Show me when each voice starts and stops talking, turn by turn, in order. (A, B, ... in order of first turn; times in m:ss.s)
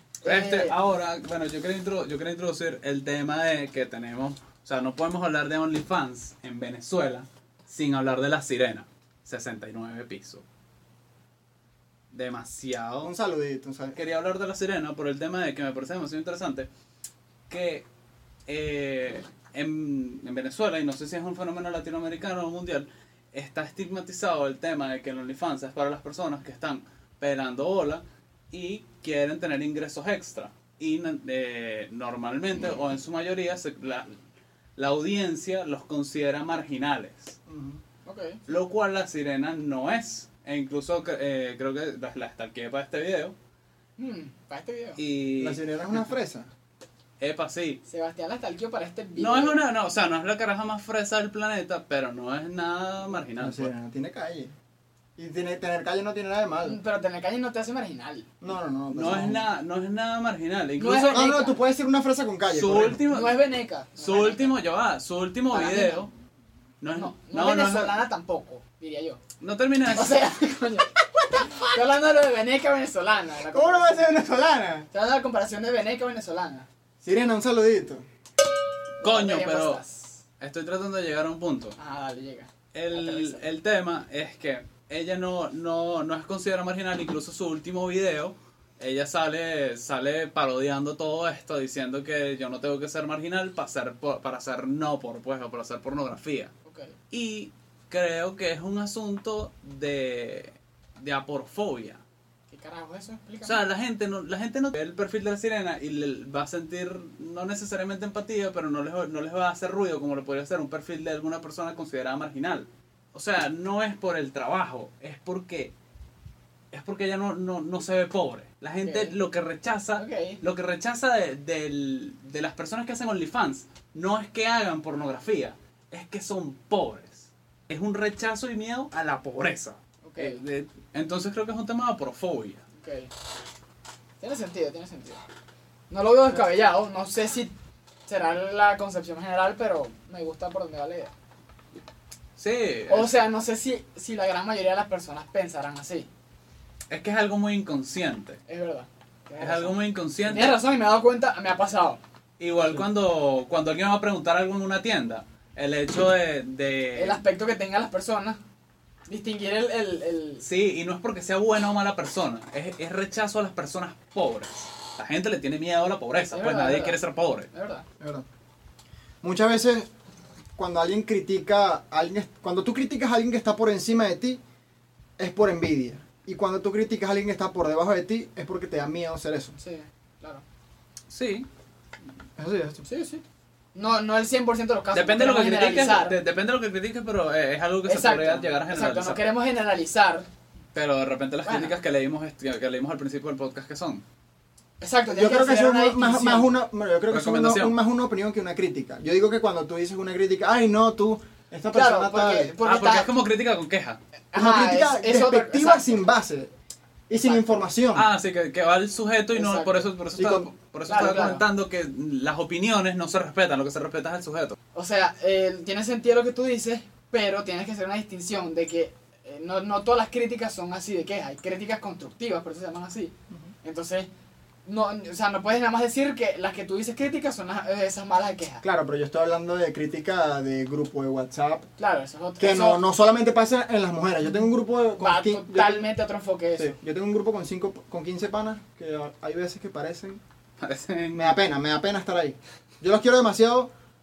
0:00.2-0:00.7 A
0:00.2-0:10.4 B
0:12.1-0:13.1 B
0:13.0-0:14.0 C
0:13.9-0:16.7 B
0:17.5-0:17.8 B
0:18.5-0:34.1 B
0:34.8-0:37.3 B
0:37.5-0:37.8 C
0:38.0-0:38.4 A
0:38.5-0:43.3 B
0:44.0-0:45.0 A
0:45.0-0:45.6 B
0:45.4-0:46.5 C
0:47.2-0:47.8 B
0:47.8-0:49.6 A
0:49.2-0:53.7 B
0:53.4-0:54.5 C
0:55.2-0:56.8 C
0:56.6-0:58.3 A
0:58.4-0:59.5 C
0:58.9-1:01.2 B
1:00.8-1:01.6 A
1:01.1-1:03.0 C
1:02.5-1:03.4 B
1:03.1-1:04.6 A
1:04.0-1:06.1 B
1:05.5-1:06.1 A
1:06.8-1:08.0 B
1:07.0-1:09.2 A
1:09.4-1:10.2 B
1:09.9-1:14.1 A
1:13.5-1:14.9 C
1:14.9-1:16.7 A
1:17.0-1:18.0 C
1:19.0-1:20.2 A
1:19.0-1:19.8 B
1:20.4-1:21.8 B
1:21.8-1:23.4 A
1:22.7-1:36.5 B
1:36.6-1:36.9 A
1:37.1-1:42.0 B
1:42.5-1:43.6 A
1:43.4-1:55.7 B
1:56.7-2:12.6 B
1:58.8-1:59.2 A
2:00.0-2:00.4 A
2:10.0-2:10.4 A
2:12.8-2:13.1 A
2:14.2-2:15.2 A
2:15.9-2:17.5 A
2:18.1-2:21.1 A
2:22.4-2:23.1 B
2:22.9-2:26.1 A
2:26.9-2:28.4 B
2:28.5-2:32.0 A
2:29.4-2:30.6 B
2:32.4-2:37.2 B
2:36.9-2:38.4 A
2:39.1-2:40.4 A
2:40.4-2:47.5 B
2:46.3-2:47.8 A
2:48.0-2:48.2 C
2:49.2-2:49.9 C
2:50.6-2:54.4 C
2:55.2-2:59.5 C
2:59.6-3:00.4 A
3:01.1-3:01.5 B
3:02.4-3:02.8 C
3:02.8-3:03.2 A
3:03.7-3:06.2 A
3:04.9-3:09.2 B
3:07.8-3:10.3 A
3:10.7-3:14.0 B
3:11.4-3:11.8 A
3:14.8-3:16.5 A
3:15.1-3:22.5 C
3:17.1-3:17.8 B
3:21.7-3:23.1 A
3:22.6-3:24.0 B
3:24.3-3:26.0 A
3:24.3-3:26.5 C
3:27.1-3:28.1 C
3:27.1-3:27.6 A
3:27.9-3:34.6 B
3:29.3-3:29.8 A
3:30.2-3:30.5 C
3:30.8-3:31.4 A
3:34.7-3:44.1 A
3:44.6-3:48.6 A
3:48.6-3:51.7 C
3:51.8-3:52.8 A
3:52.4-3:55.9 C
3:55.0-3:56.8 A
3:56.6-4:00.2 C
4:00.6-4:01.4 B
4:01.1-4:03.7 C